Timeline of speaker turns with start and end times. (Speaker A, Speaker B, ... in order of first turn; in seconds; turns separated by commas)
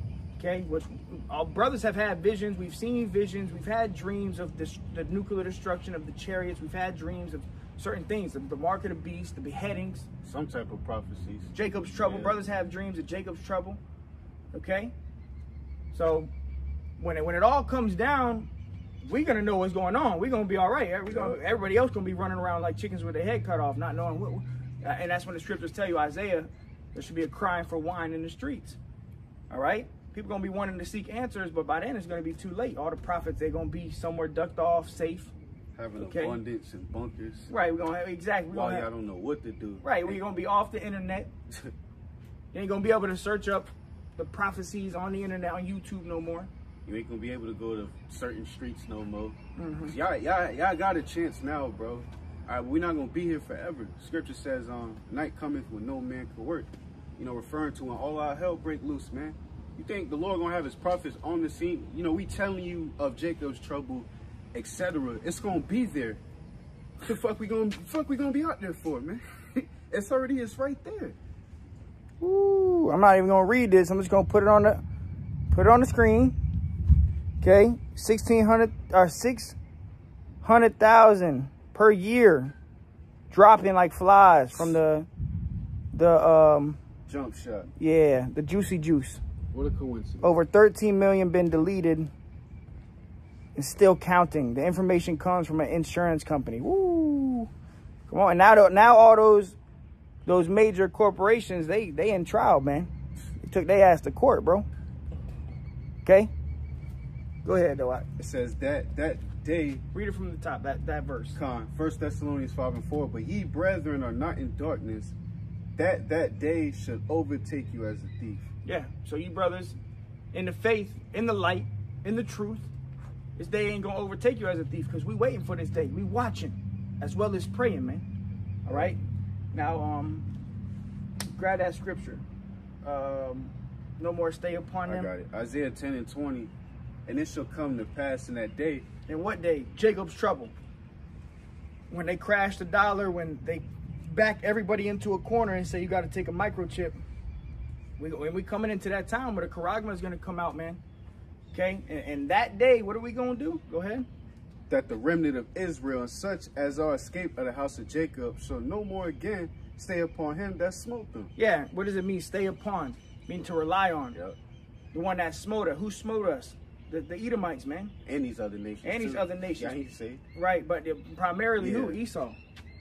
Speaker A: 0.4-10.1, Speaker B: 10.2-12.4, Speaker A: 11.5-13.8, Speaker A: 14.5-14.9, Speaker A: 15.9-16.3, Speaker A: 17.0-18.5, Speaker A: 19.0-28.8, Speaker B: 21.1-21.4, Speaker A: 29.5-35.3, Speaker B: 35.8-37.5, Speaker A: 36.0-36.4, Speaker A: 37.5-38.9, Speaker B: 38.5-40.2, Speaker A: 39.8-41.3, Speaker A: 42.5-46.5, Speaker B: 46.9-66.2, Speaker A: 49.6-50.0, Speaker B: 67.0-71.2, Speaker A: 72.2-74.8, Speaker A: 75.5-76.4, Speaker A: 77.4-79.6, Speaker A: 80.4-82.5, Speaker A: 83.3-85.1, Speaker A: 85.9-86.8, Speaker B: 87.1-87.7, Speaker A: 87.8-89.2, Speaker B: 89.5-90.4, Speaker A: 90.2-92.1, Speaker A: 93.6-97.5, Speaker A: 98.1-99.6, Speaker A: 100.3-102.9, Speaker A: 103.4-104.7, Speaker A: 106.0-106.3, Speaker A: 107.5-108.1, Speaker B: 108.2-109.8, Speaker A: 109.9-111.4, Speaker B: 111.3-115.2, Speaker B: 115.8-118.5, Speaker A: 118.7-119.8, Speaker A: 120.3-122.7, Speaker A: 123.4-128.1, Speaker A: 128.7-129.0, Speaker B: 128.7-128.9, Speaker A: 129.5-130.3, Speaker A: 131.2-132.2, Speaker A: 132.8-135.1, Speaker B: 134.9-136.5, Speaker B: 137.1-138.9, Speaker A: 139.1-140.5, Speaker A: 141.9-147.0, Speaker A: 148.0-150.8, Speaker A: 151.5-154.1, Speaker B: 154.7-161.3, Speaker A: 161.4-164.2, Speaker A: 164.9-167.9, Speaker B: 168.1-170.2, Speaker A: 168.8-169.8, Speaker A: 170.3-172.4, Speaker B: 171.6-172.0